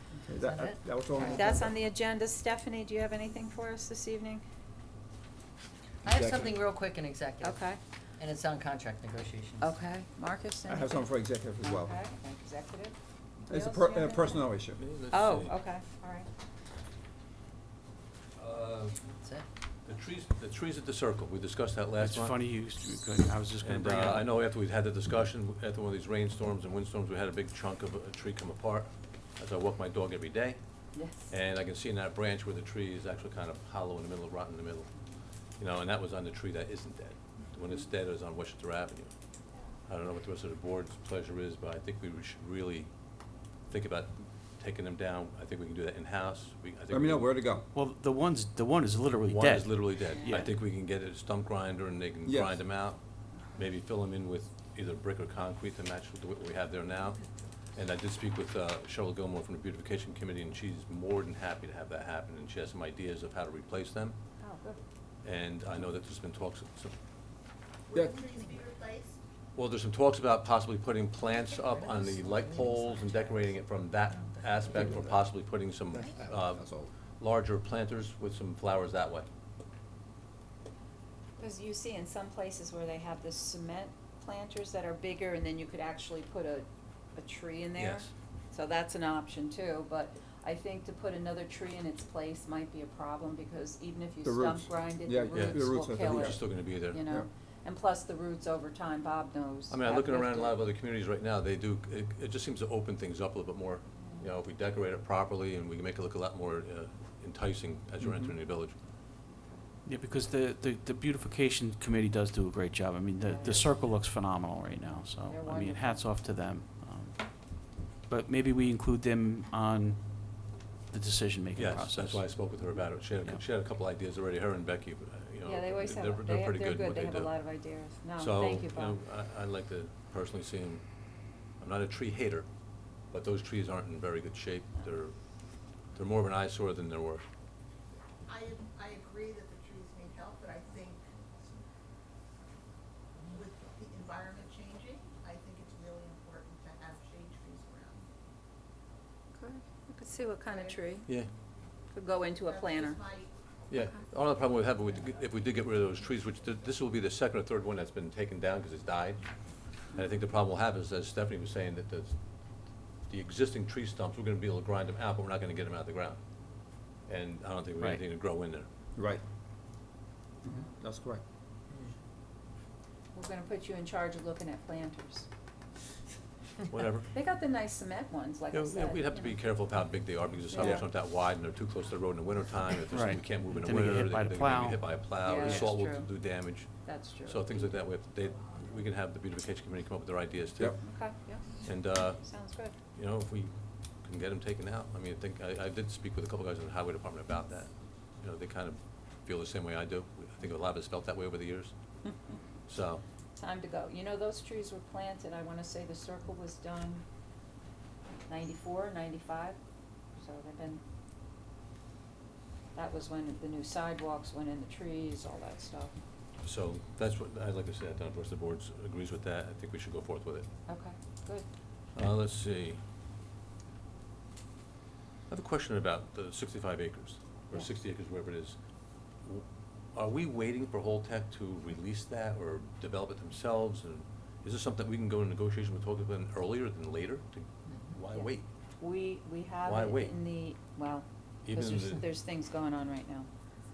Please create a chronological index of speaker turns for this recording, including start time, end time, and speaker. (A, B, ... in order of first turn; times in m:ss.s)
0:00.3-0:01.7 A
0:00.4-0:01.6 B
0:01.2-0:04.4 C
0:06.0-0:07.6 B
0:06.0-0:06.6 A
0:07.4-0:07.8 C
0:08.2-0:09.8 B
0:09.6-0:11.1 C
0:10.7-0:12.0 A
0:11.6-0:14.4 C
0:13.5-0:14.8 A
0:14.7-0:15.6 D
0:15.1-0:16.3 C
0:18.4-0:19.0 D
0:19.8-0:22.4 D
0:22.0-0:24.3 E
0:23.6-0:34.9 D
0:30.9-0:31.3 C
0:35.6-0:39.1 D
0:39.9-0:42.9 D
0:43.7-0:47.4 D
0:46.9-0:47.7 A
0:47.7-0:50.5 E
0:49.2-0:53.0 D
0:50.1-0:50.5 C
0:52.2-0:52.6 A
0:53.6-1:04.2 D
1:04.4-1:04.8 C
1:05.2-1:07.0 D
1:07.9-1:09.2 F
1:07.9-1:08.3 A
1:09.6-1:19.3 D
1:11.6-1:13.6 B
1:14.7-1:15.1 A
1:15.9-1:16.9 A
1:21.4-1:40.6 C
1:27.8-1:28.1 D
1:34.2-1:36.5 A
1:35.3-1:37.0 D
1:37.0-1:37.3 A
1:39.7-1:48.8 D
1:44.0-1:44.3 C
1:48.0-1:48.3 A
1:49.8-2:02.6 E
1:53.2-1:53.8 C
1:54.7-1:56.0 C
2:01.6-2:10.8 D
2:03.2-2:03.4 E
2:05.4-2:09.0 C
2:11.6-2:12.5 D
2:13.1-2:15.2 D
2:15.8-2:17.2 D
2:18.2-2:21.1 F
2:23.3-2:28.0 F
2:29.3-2:31.1 C
2:30.5-2:31.0 F
2:31.0-2:31.3 D
2:31.9-2:33.0 C
2:32.4-2:33.3 F
2:33.7-2:46.2 D
2:47.1-2:48.7 D
2:49.0-2:49.2 A
2:50.5-2:51.2 A
2:53.1-2:55.3 C
2:56.7-2:57.1 D
2:57.1-2:59.6 C
2:58.5-3:11.0 D
3:00.5-3:00.8 C
3:00.6-3:00.8 E
3:02.9-3:05.8 E
3:05.2-3:06.1 C
3:06.8-3:07.7 C
3:10.8-3:12.8 C
3:11.6-3:12.2 D
3:12.9-3:21.7 D
3:22.0-3:22.3 C
3:22.7-3:23.0 D
3:23.4-3:27.0 C
3:28.3-3:29.6 C
3:30.2-3:30.8 C
3:32.8-3:35.9 C
3:36.4-3:40.5 D
3:40.7-3:41.4 C
3:41.9-3:42.8 D
3:45.3-3:48.6 D
3:49.2-3:58.4 D
3:58.1-4:03.3 C
3:59.6-4:00.2 D
4:01.4-4:02.0 D